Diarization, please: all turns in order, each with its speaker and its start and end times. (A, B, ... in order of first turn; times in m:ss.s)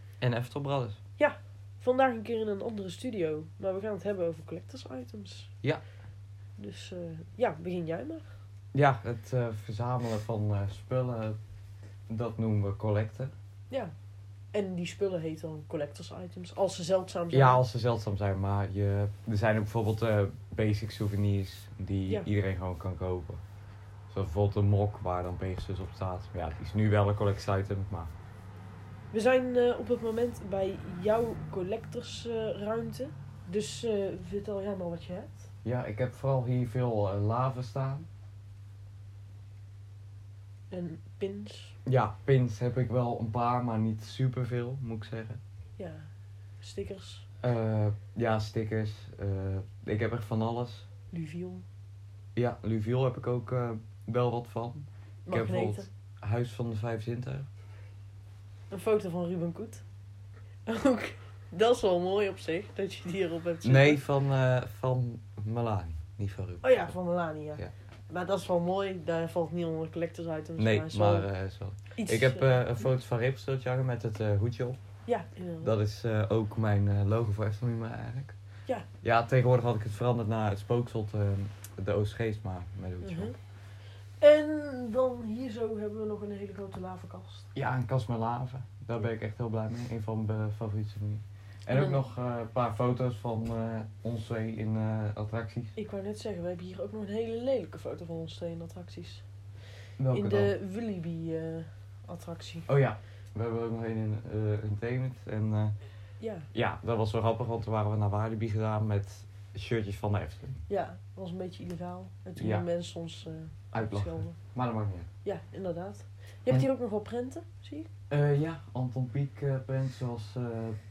0:00.2-0:01.0 A
0:01.2-0:05.5 B
0:06.6-0:08.2 B
0:08.7-0:11.4 A
0:12.1-0:13.3 A
0:14.5-0:17.6 B
0:17.3-0:23.4 A
0:24.1-0:28.1 A
0:29.1-0:35.5 B
0:35.6-0:38.1 A
0:40.7-0:41.8 B
0:41.8-0:45.4 A
0:45.8-0:46.1 B
0:46.6-0:47.2 B
0:47.4-0:50.9 A
0:51.1-0:51.6 B
0:52.4-0:57.5 A
0:55.2-0:55.9 B
0:58.7-0:59.8 B
1:00.6-1:04.0 B
1:03.6-1:06.8 A
1:06.6-1:11.3 B
1:10.6-1:14.8 A
1:12.0-1:12.6 B
1:15.0-1:15.7 B
1:15.6-1:18.4 A
1:19.0-1:23.3 A
1:23.0-1:23.3 B
1:24.2-1:27.5 B
1:27.5-1:35.8 A
1:31.7-1:32.0 B
1:35.8-1:39.2 B
1:40.0-1:40.5 A
1:40.1-1:42.7 B
1:42.7-1:45.7 A
1:46.2-1:46.5 B
1:46.5-1:50.6 A
1:50.7-1:54.4 B
1:52.4-1:52.6 A
1:53.7-1:55.1 A
1:55.2-1:57.9 B
1:58.1-2:00.8 A